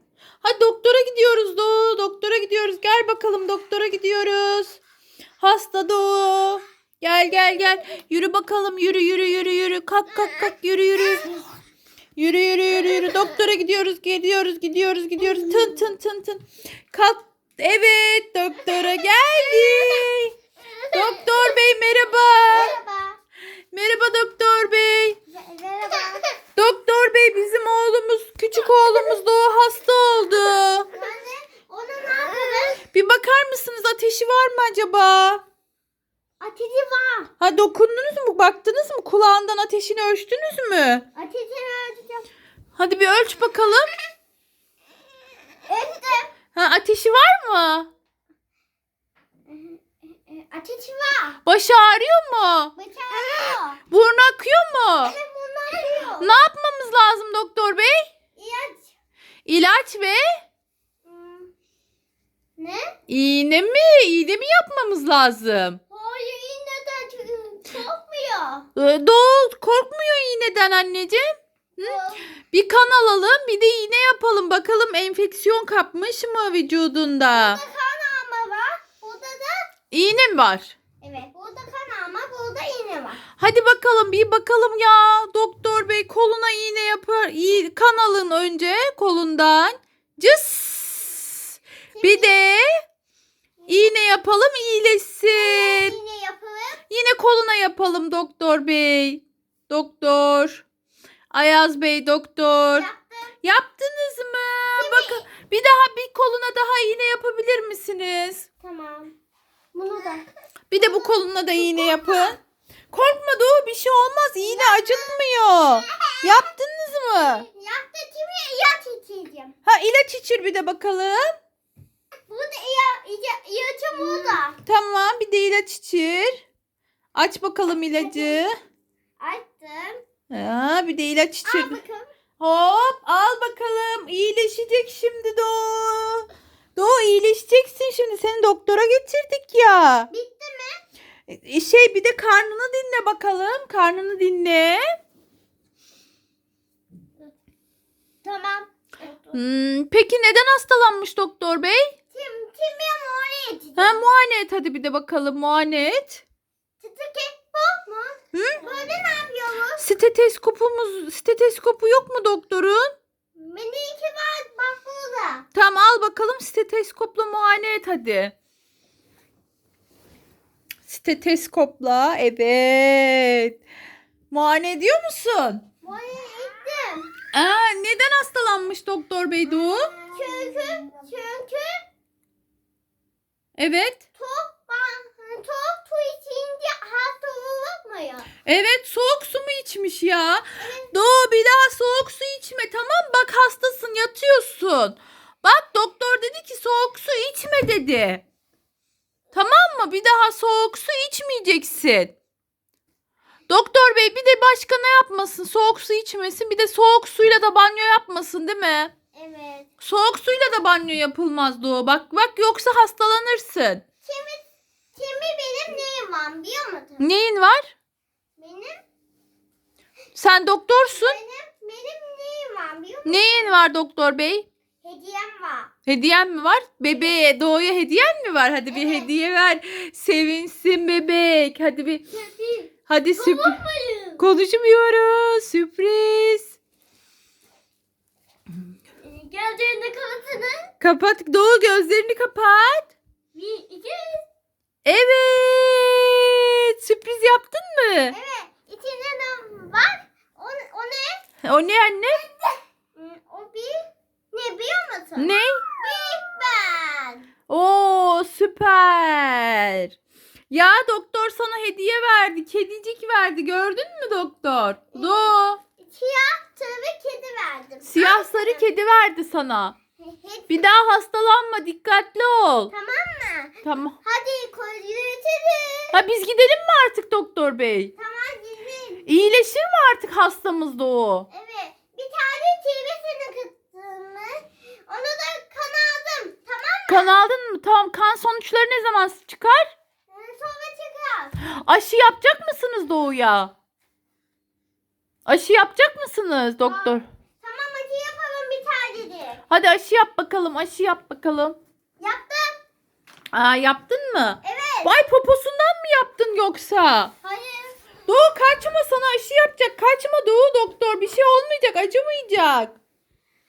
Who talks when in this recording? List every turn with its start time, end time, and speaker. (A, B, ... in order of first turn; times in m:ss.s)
0:00.4-0:04.8 A
0:05.4-0:11.4 A
0:12.2-0:20.4 A
0:15.2-0:15.9 B
0:19.0-0:20.1 B
0:20.6-0:21.5 B
0:20.9-0:22.8 A
0:22.5-0:23.2 B
0:23.7-0:25.2 A
0:25.3-0:26.4 B
0:26.6-0:30.9 A
0:28.7-0:29.2 B
0:30.9-0:32.8 B
0:32.8-0:35.4 A
0:36.4-0:37.3 B
0:37.4-0:41.0 A
0:41.1-0:42.3 B
0:42.8-0:43.9 A
0:45.7-0:46.3 B
0:46.5-0:47.9 A
0:49.5-0:51.4 B
0:51.4-0:52.7 A
0:52.8-0:53.8 B
0:53.9-0:55.2 A
0:55.0-0:56.4 B
0:56.2-0:58.0 A
0:58.4-0:58.9 B
0:59.4-1:00.2 A
1:01.0-1:01.5 B
1:02.6-1:02.9 B
1:03.1-1:05.8 A
1:05.9-1:08.7 B
1:08.8-1:11.2 A
1:11.8-1:12.2 B
1:12.5-1:17.6 A
1:17.3-1:19.5 B
1:19.9-1:20.8 A
1:21.0-1:23.2 B
1:23.3-1:31.4 A
1:31.9-1:32.4 B
1:32.0-1:32.6 A
1:33.6-1:33.9 B
1:33.7-1:36.0 A
1:35.3-1:36.8 B
1:36.9-1:40.6 A
1:41.3-1:42.9 A
1:42.7-1:43.3 B
1:43.4-1:48.5 A
1:44.7-1:45.2 B
1:48.6-1:49.1 B
1:49.7-1:50.2 B
1:50.7-1:52.4 A
1:50.8-1:52.4 B
1:52.9-1:57.4 A
1:54.4-1:55.2 B
1:55.7-1:56.5 B
1:57.2-1:59.5 B
1:59.6-2:01.2 A
2:02.3-2:04.6 B
2:04.0-2:06.4 A
2:07.1-2:08.5 A
2:07.9-2:08.4 B
2:09.2-2:10.0 B
2:10.3-2:11.8 A
2:11.4-2:12.1 B
2:12.4-2:20.1 A
2:20.1-2:20.8 B
2:21.3-2:24.8 A
2:28.2-2:29.4 B
2:29.3-2:31.9 A
2:32.1-2:34.0 B
2:33.8-2:36.2 A
2:36.8-2:39.9 B
2:38.3-2:38.7 A
2:39.8-2:42.9 A
2:43.4-2:45.4 B
2:45.5-2:48.3 A
2:50.8-2:53.6 A
2:54.3-2:55.7 A
2:55.8-2:57.2 B
2:57.3-2:59.9 A
2:59.9-3:01.7 B
3:03.6-3:04.0 A
3:04.2-3:08.3 B
3:08.4-3:18.2 A
3:10.6-3:11.0 B
3:19.3-3:22.1 A
3:23.5-3:29.0 A
3:29.1-3:29.7 B
3:29.8-3:33.9 A
3:34.0-3:34.4 B
3:34.9-3:37.1 B
3:37.0-3:37.7 A
3:38.4-3:38.7 B
3:40.1-3:41.2 A
3:40.8-3:43.5 B
3:43.0-3:44.5 A
3:44.8-3:45.7 B
3:45.8-3:52.2 A
3:46.9-3:47.2 B
3:48.7-3:49.1 B
3:52.1-3:54.2 B
3:52.9-3:53.6 A
3:54.2-3:56.5 A
3:59.0-4:00.7 B
4:00.8-4:02.9 A
4:03.3-4:04.2 B
4:04.8-4:08.2 A
4:08.1-4:11.2 B
4:11.4-4:12.2 A
4:12.3-4:17.3 B
4:15.2-4:15.7 A
4:17.5-4:19.9 A
4:20.5-4:25.6 A
4:24.9-4:28.6 B
4:27.8-4:29.8 A
4:30.0-4:30.8 B
4:30.5-4:32.7 A
4:32.7-4:36.0 B
4:33.6-4:34.0 A
4:35.9-4:37.9 A
4:38.0-4:39.0 B
4:39.0-4:41.3 A
4:41.3-4:47.1 B
4:46.9-4:49.7 A
4:50.1-4:51.4 B
4:51.4-4:53.5 A
4:55.2-4:57.0 A
4:56.6-4:59.4 B
4:59.5-5:01.6 A
5:02.0-5:02.6 B
5:03.3-5:07.1 A
5:04.4-5:05.0 B
5:07.2-5:07.8 B
5:08.1-5:12.8 A